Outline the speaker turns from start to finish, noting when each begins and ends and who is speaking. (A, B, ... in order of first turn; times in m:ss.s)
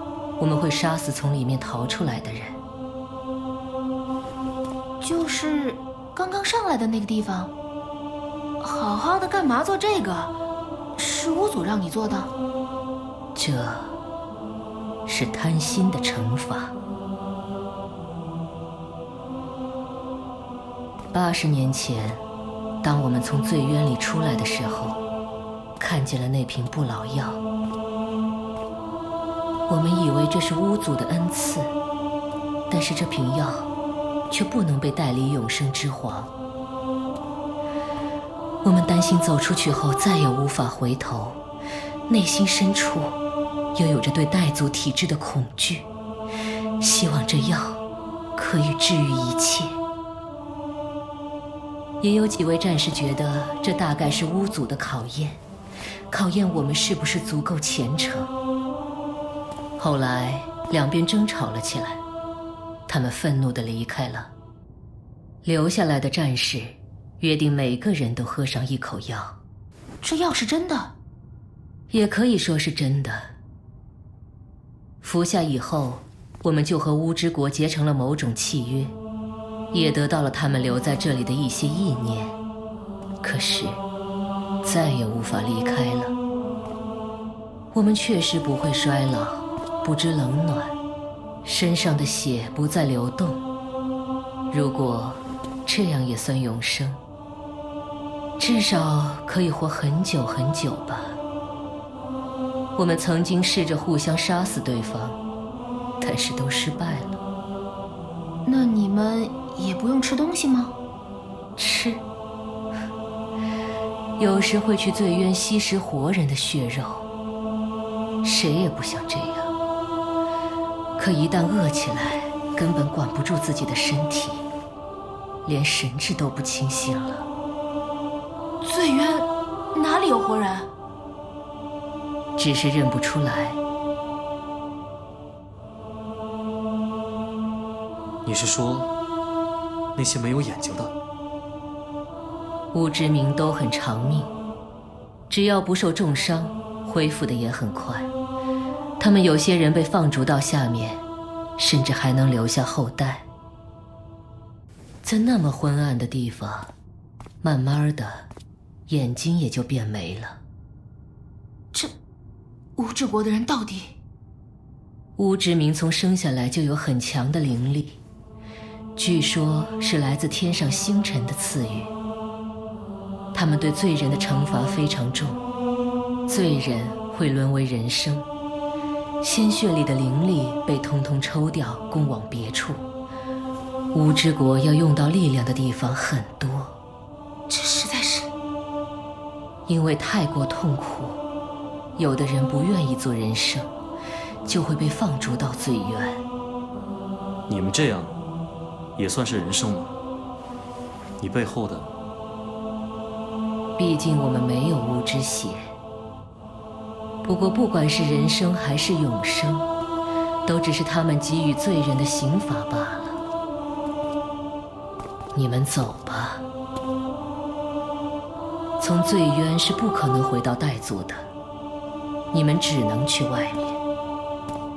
0:00.4-0:02.6 A
0:05.0-0:07.5 B
0:08.6-0:10.4 B
0:11.0-0:12.3 B
0:13.4-0:14.0 A
0:15.1-0:16.7 A
0:21.1-0:22.2 A
0:22.8-0:25.0 A
0:25.8-0:27.4 A
0:29.7-0:31.7 A
0:32.7-0:33.7 A
0:34.3-0:36.3 A
0:38.6-0:41.4 A
0:42.1-0:43.2 A
0:43.7-0:45.9 A
0:46.8-0:47.8 A
0:48.4-0:49.8 A
0:52.0-0:55.4 A
0:56.1-0:58.3 A
0:59.8-1:02.0 A
1:02.9-1:04.3 A
1:05.4-1:09.4 A
1:10.0-1:10.9 B
1:11.9-1:13.3 A
1:15.0-1:19.0 A
1:19.7-1:22.4 A
1:23.2-1:23.8 A
1:24.6-1:26.2 A
1:27.7-1:30.8 A
1:31.4-1:33.4 A
1:34.5-1:37.0 A
1:38.4-1:41.2 A
1:42.8-1:45.2 A
1:46.0-1:47.2 A
1:48.5-1:50.8 B
1:51.6-1:52.0 A
1:54.2-1:57.1 A
1:58.2-1:59.5 A
2:01.0-2:04.4 A
2:05.4-2:07.3 A
2:08.6-2:10.7 B
2:12.4-2:13.6 A
2:18.2-2:18.9 C
2:20.0-2:21.0 C
2:22.7-2:24.3 A
2:25.3-2:28.1 A
2:29.0-2:31.0 A
2:31.6-2:33.3 A
2:35.0-2:36.7 A
2:37.4-2:38.3 A
2:38.9-2:40.4 A
2:42.8-2:43.9 B
2:45.2-2:48.0 A
2:49.0-2:51.9 A
2:53.3-2:55.4 A
2:56.3-2:58.3 A
2:59.2-3:02.8 A
3:03.9-3:06.8 A
3:07.5-3:08.3 B
3:09.7-3:11.2 A
3:12.0-3:13.7 A
3:14.4-3:16.2 A
3:17.5-3:18.1 C
3:19.0-3:20.0 C
3:21.2-3:21.9 C
3:23.8-3:25.7 A
3:27.2-3:29.7 A
3:30.4-3:33.2 A
3:35.3-3:36.4 A
3:38.8-3:41.3 A
3:42.3-3:43.8 A